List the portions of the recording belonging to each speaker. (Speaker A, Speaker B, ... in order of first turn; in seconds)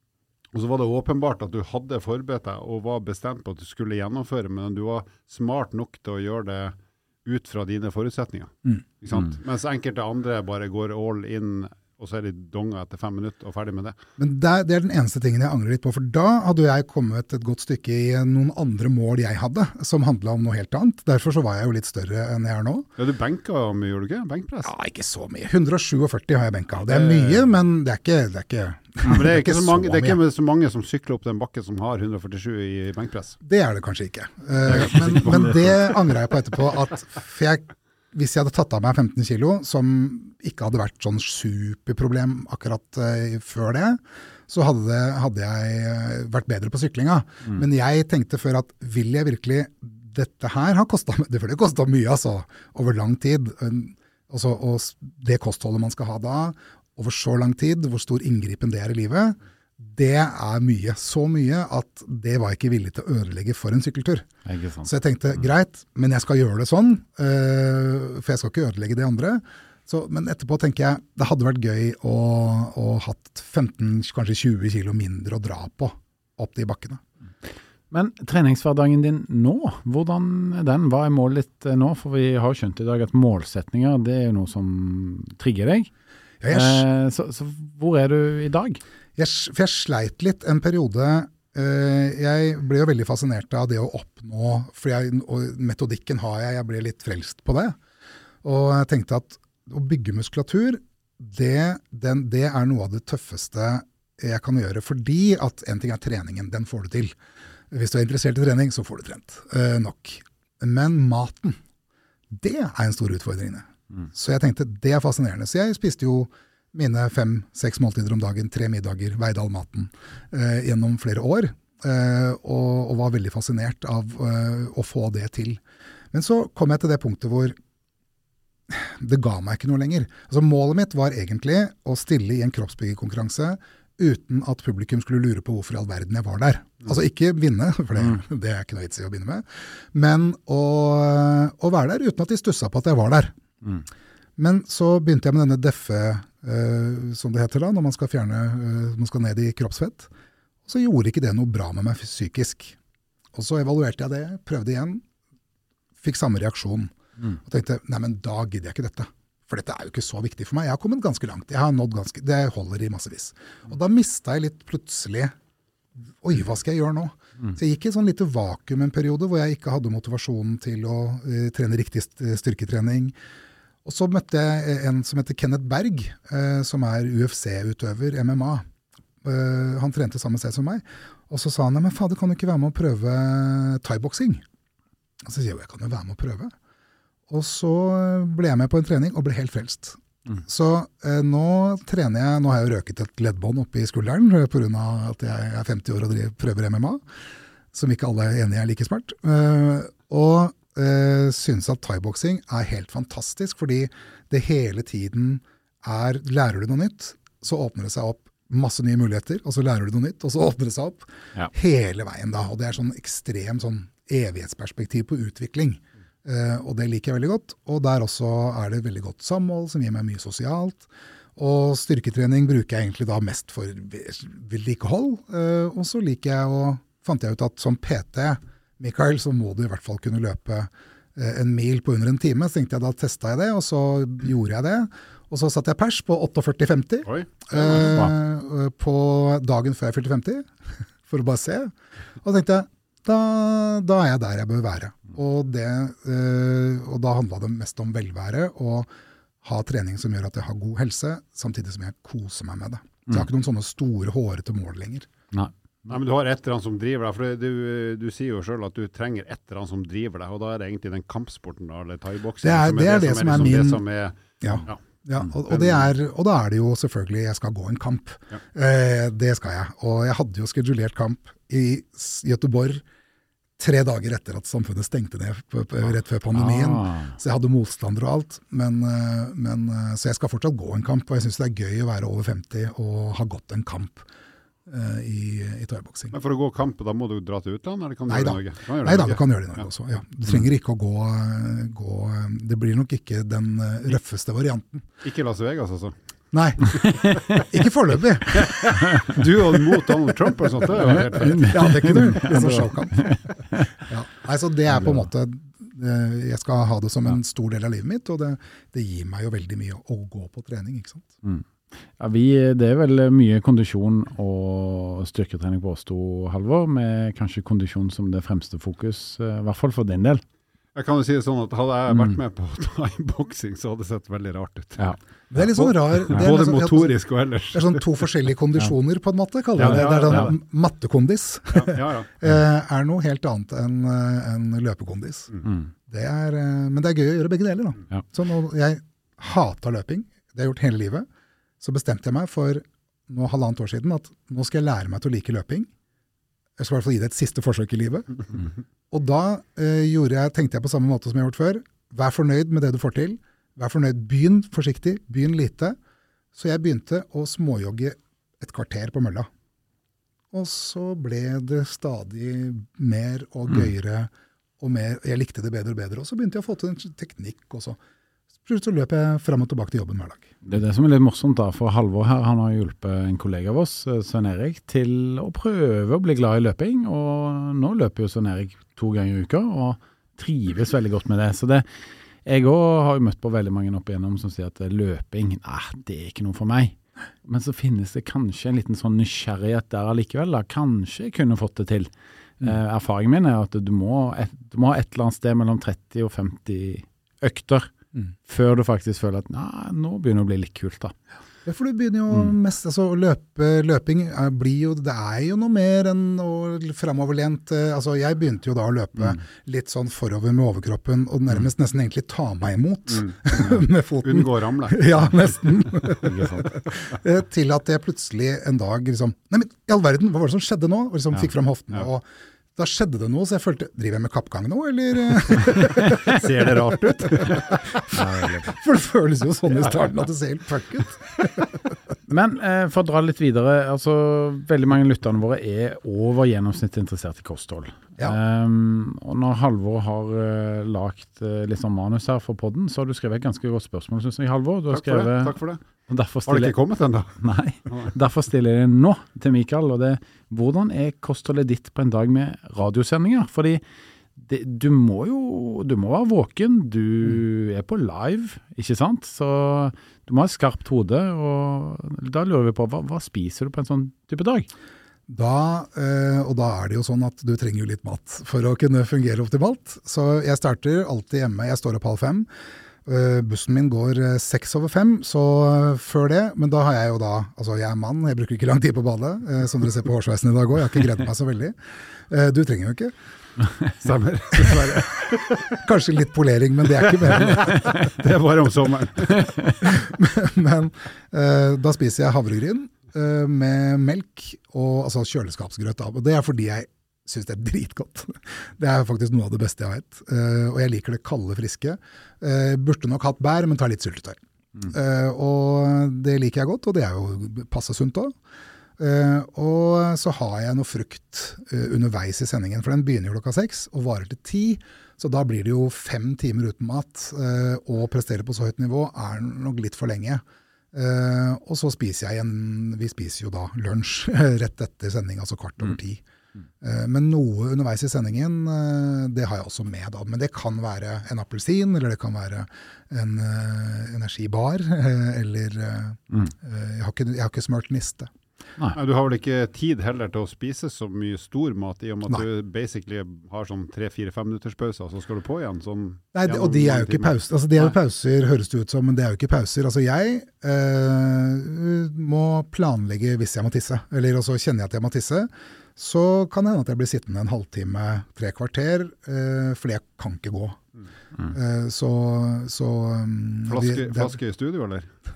Speaker A: 0.5-14.0, 23.0-24.7, 26.8-27.5, 29.0-33.4, 34.7-35.9, 237.1-237.9, 255.9-264.8, 265.5-265.9, 286.1-289.6, 295.0-295.9, 298.4-302.6, 320.8-328.0, 329.6-330.4, 331.5-332.1, 412.9-415.0, 425.9-427.7, 444.7-445.6, 446.3-447.2, 483.8-485.6, 486.9-489.3, 538.8-547.7, 563.5-564.9
Speaker B: 14.2-22.9, 24.6-30.2, 33.4-64.3, 64.8-77.0, 86.4-86.8, 89.2-97.8, 98.4-107.2, 107.7-111.6, 112.3-125.6, 126.1-127.6, 128.7-143.4, 144.4-150.1, 150.7-152.8, 153.3-155.0, 156.0-165.3, 166.2-173.1, 173.8-178.6, 179.2-184.4, 185.2-186.5, 187.3-197.0, 197.7-240.5, 241.1-248.9, 249.4-255.1, 262.4-263.8, 264.4-272.8, 273.6-284.0, 284.7-286.1, 288.1-294.9, 296.3-298.8, 301.4-303.2, 303.8-311.1, 325.3-327.0, 327.5-335.3, 335.9-341.1, 341.6-345.7, 346.6-355.8, 356.3-359.3, 360.3-367.8, 368.4-370.3, 401.4-431.7, 465.1-472.3, 472.9-481.6, 482.1-482.9, 484.3-487.9, 489.6-508.1, 508.8-526.0, 526.6-538.1, 546.1-560.6, 561.3-564.2
Speaker C: 64.5-64.9, 77.9-85.9, 86.5-88.8, 237.8-238.1, 276.3-277.2, 296.8-297.3, 298.7-299.2, 300.8-303.7, 312.0-320.2, 321.9-322.2, 329.6-330.3, 370.4-381.7, 382.2-397.7, 398.3-400.9, 415.9-416.5, 427.9-428.5, 432.1-445.4, 445.9-446.6, 447.2-453.6, 454.2-464.5, 489.2-489.6